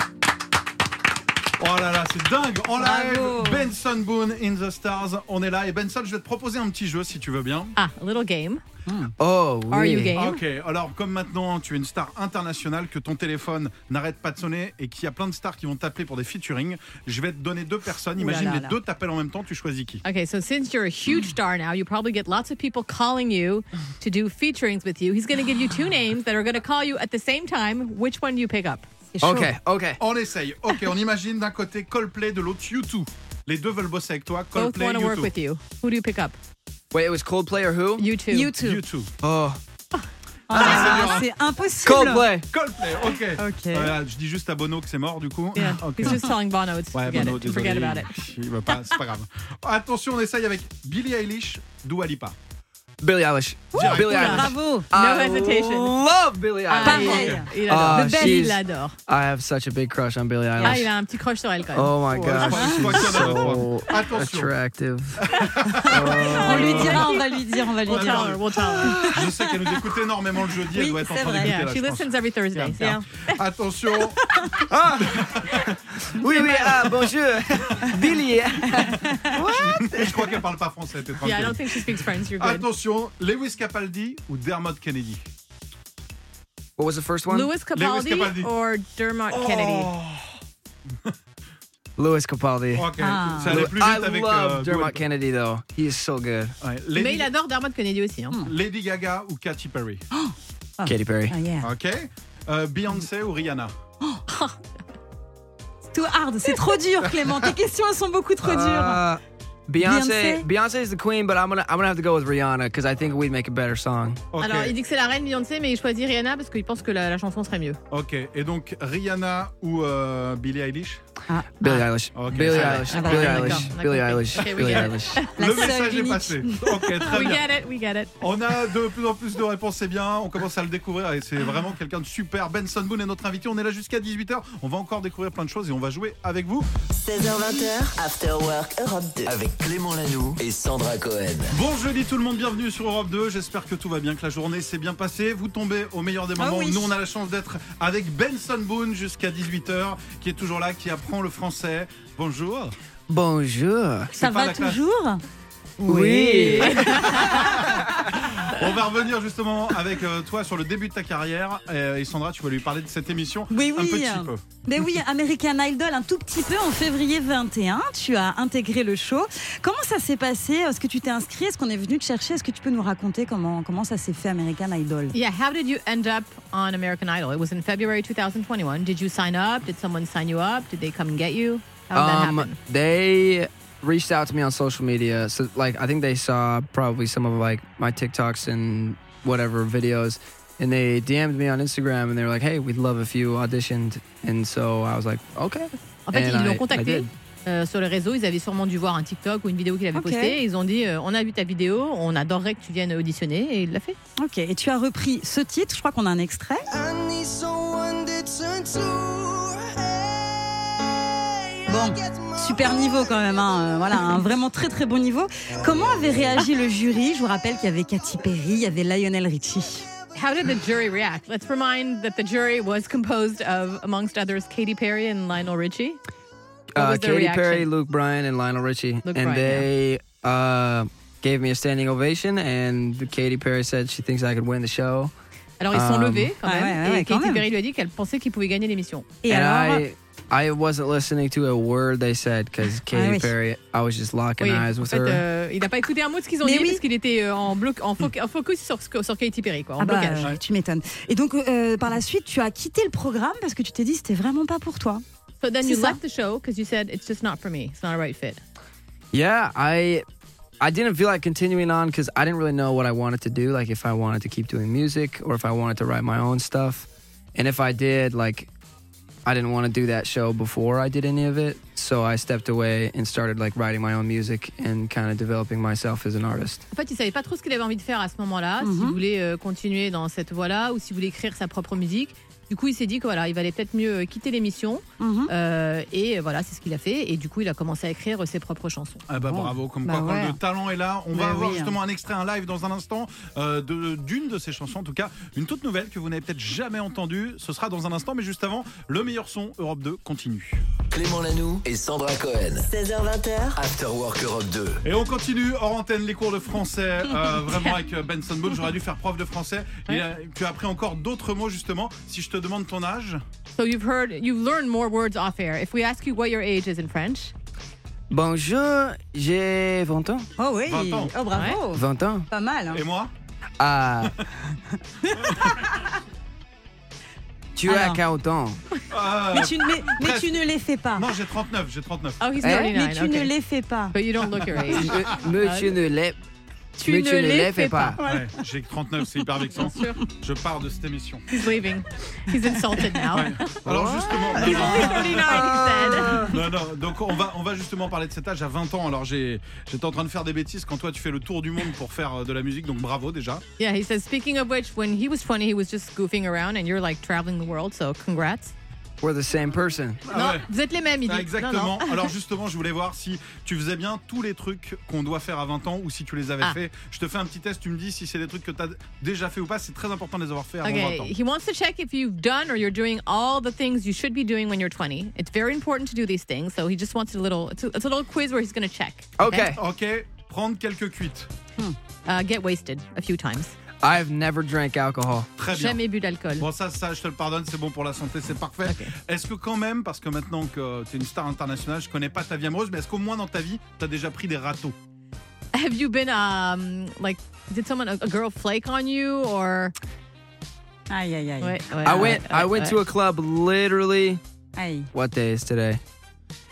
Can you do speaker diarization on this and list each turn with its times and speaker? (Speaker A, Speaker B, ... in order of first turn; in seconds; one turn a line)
Speaker A: 1.6-7.8
Speaker B: 2.8-3.7
Speaker C: 7.8-8.6
Speaker B: 8.9-9.1
Speaker D: 9.2-10.2
Speaker C: 9.7-10.4
Speaker A: 10.1-20.0
Speaker C: 18.2-18.7
Speaker C: 20.0-28.9
Speaker B: 29.1-29.5
Speaker D: 29.2-30.0
Speaker A: 30.0-35.3
Speaker C: 34.5-36.4
Speaker D: 36.9-38.1
Speaker C: 38.0-38.5
Speaker B: 38.3-38.8
Speaker A: 38.6-39.1
Speaker D: 39.2-39.6
Speaker B: 40.5-42.3
Speaker A: 40.5-41.3
Speaker D: 40.5-41.2
Speaker D: 41.8-42.5
Speaker A: 42.5-46.3
Speaker B: 43.4-44.0
Speaker C: 45.5-48.1
Speaker A: 46.9-52.3
Speaker D: 53.0-60.9
Speaker A: 53.7-54.4
Speaker B: 53.7-54.9
Speaker C: 53.8-56.0
Speaker C: 56.7-58.9
Speaker B: 56.8-58.5
Speaker A: 57.0-57.5
Speaker C: 60.6-62.5
Speaker D: 61.7-67.1
Speaker A: 62.0-64.5
Speaker B: 62.5-63.2
Speaker A: 65.2-67.1
Speaker C: 65.5-69.2
Speaker B: 66.0-69.8
Speaker A: 67.8-74.2
Speaker B: 70.7-71.5
Speaker C: 71.4-73.4
Speaker B: 72.8-73.0
Speaker D: 74.7-80.3
Speaker A: 75.0-75.7
Speaker C: 76.3-76.6
Speaker B: 78.7-79.4
Speaker A: 78.8-85.2
Speaker C: 81.2-82.7
Speaker D: 86.8-87.5
Speaker C: 87.3-90.0
Speaker A: 87.7-88.5
Speaker A: 89.3-90.2
Speaker D: 92.0-96.5
Speaker A: 92.7-95.0
Speaker B: 93.0-93.6
Speaker A: 96.6-97.3
Speaker C: 96.9-98.4
Speaker A: 98.4-100.0
Speaker B: 100.1-101.7
Speaker D: 100.8-101.3
Speaker A: 101.6-103.7
Speaker C: 104.3-104.6
Speaker B: 105.9-109.0
Speaker D: 108.4-114.2
Speaker B: 109.8-110.4
Speaker A: 114.3-114.7
Speaker C: 114.4-117.8
Speaker A: 117.9-121.0
Speaker B: 121.3-121.8
Speaker D: 121.6-125.2
Speaker A: 122.1-123.5
Speaker B: 122.5-123.7
Speaker C: 122.5-125.4
Speaker A: 124.6-124.8
Speaker B: 125.4-127.0
Speaker A: 125.4-127.5
Speaker C: 127.0-128.1
Speaker A: 128.2-136.7
Speaker E: 136.9-139.3
Speaker F: 139.2-141.6
Speaker A: 141.5-152.7
Speaker B: 146.4-146.9
Speaker D: 153.1-154.1
Speaker A: 154.1-154.8
Speaker B: 154.2-155.2
Speaker B: 155.8-157.7
Speaker D: 155.8-157.3
Speaker A: 157.2-164.4
Speaker B: 163.5-175.2
Speaker C: 175.1-182.6
Speaker D: 181.9-197.1
Speaker C: 196.1-204.0
Speaker B: 199.9-200.4
Speaker B: 204.2-206.7
Speaker G: 206.7-213.4
Speaker B: 211.7-219.8
Speaker G: 213.9-214.2
Speaker G: 215.6-216.4
Speaker C: 220.1-226.0
Speaker D: 226.7-235.1
Speaker C: 226.8-227.7
Speaker C: 229.0-229.7
Speaker C: 235.6-239.2
Speaker D: 235.7-236.3
Speaker B: 236.4-237.4
Speaker B: 239.2-239.8
Speaker D: 239.3-245.2
Speaker B: 242.9-243.3
Speaker C: 244.4-250.3
Speaker B: 246.4-246.8
Speaker B: 249.8-255.0
Speaker C: 255.4-258.4
Speaker B: 255.6-256.0
Speaker D: 259.1-260.0
Speaker D: 260.6-268.5
Speaker D: 269.2-276.6
Speaker C: 276.7-289.0
Speaker B: 278.6-279.0
Speaker B: 285.0-285.3
Speaker A: 289.1-300.6
Speaker B: 289.2-290.4
Speaker B: 291.1-291.7
Speaker F: 300.9-302.7
Speaker E: 302.6-303.6
Speaker F: 303.6-304.8
Speaker A: 304.8-313.2
Speaker C: 313.6-317.3
Speaker D: 318.1-320.3
Speaker B: 320.4-322.8
Speaker A: 320.6-321.1
Speaker C: 321.3-321.6
Speaker D: 321.7-322.3
Speaker A: 322.7-323.1
Speaker D: 323.6-324.1
Speaker B: 325.0-325.6
Speaker A: 325.2-325.5
Speaker D: 327.6-328.6
Speaker B: 327.6-328.0
Speaker A: 328.9-330.4
Speaker B: 329.3-331.1
Speaker A: 330.9-332.2
Speaker C: 332.2-333.3
Speaker D: 332.4-332.7
Speaker B: 332.4-334.0
Speaker C: 333.9-335.7
Speaker D: 334.7-336.2
Speaker C: 336.8-338.0
Speaker D: 336.8-338.0
Speaker B: 338.0-338.3
Speaker A: 338.0-341.3
Speaker C: 339.5-340.0
Speaker C: 341.3-343.6
Speaker A: 343.1-345.6
Speaker D: 343.6-346.4
Speaker C: 344.2-346.3
Speaker B: 344.4-345.0
Speaker A: 346.2-353.4
Speaker C: 353.6-358.5
Speaker D: 359.0-360.0
Speaker A: 360.1-360.5
Speaker C: 360.1-362.1
Speaker A: 361.1-371.1
Speaker C: 370.6-379.6
Speaker D: 379.2-379.6
Speaker A: 379.5-381.3
Speaker C: 382.1-383.5
Speaker D: 383.8-385.3
Speaker A: 385.4-385.8
Speaker C: 385.5-386.5
Speaker A: 386.4-394.7
Speaker C: 388.6-388.9
Speaker C: 395.5-399.7
Speaker B: 400.9-402.1
Speaker C: 401.4-402.8
Speaker D: 401.8-404.2
Speaker B: 404.6-404.9
Speaker D: 404.9-405.8